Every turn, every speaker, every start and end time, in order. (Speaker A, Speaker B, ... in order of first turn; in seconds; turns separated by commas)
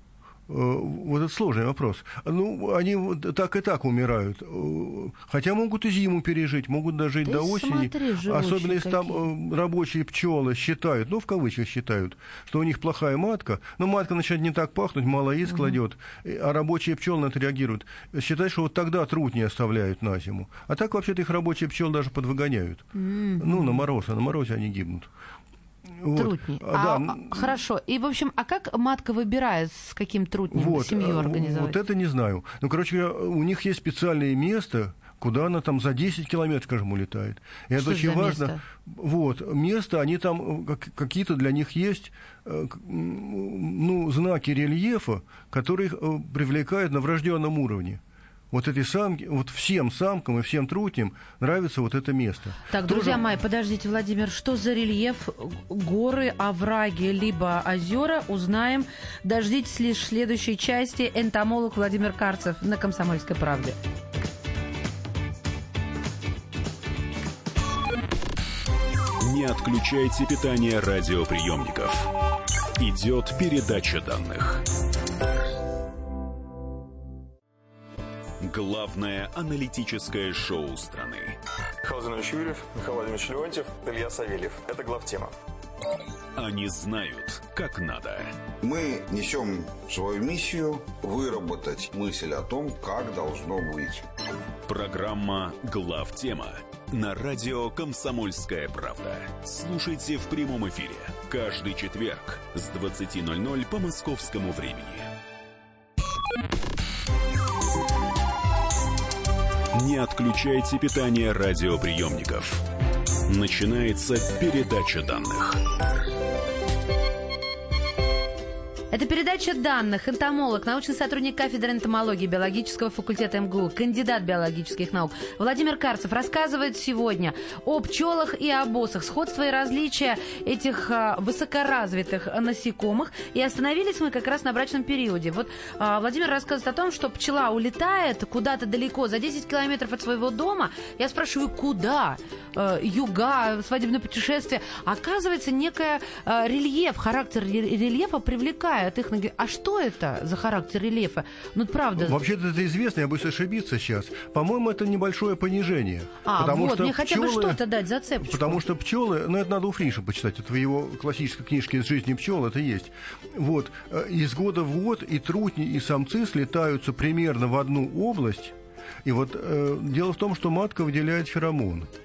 Speaker A: 0.5-22.9, Speaker B: 7.2-9.3, Speaker B: 15.5-15.8, Speaker B: 22.9-23.8, Speaker A: 23.4-25.1, Speaker A: 26.0-27.6, Speaker B: 26.1-31.8, Speaker A: 30.5-48.0, Speaker B: 37.8-38.6, Speaker A: 48.5-53.3, Speaker B: 52.7-63.8, Speaker C: 69.2-72.1, Speaker C: 72.8-74.6, Speaker C: 78.4-81.3, Speaker D: 81.8-85.3, Speaker C: 86.3-88.3, Speaker E: 88.6-94.0, Speaker C: 94.7-105.1, Speaker C: 109.7-112.6, Speaker C: 113.3-115.6, Speaker B: 118.9-152.2, Speaker A: 152.0-157.6, Speaker B: 156.2-158.6, Speaker A: 158.2-171.9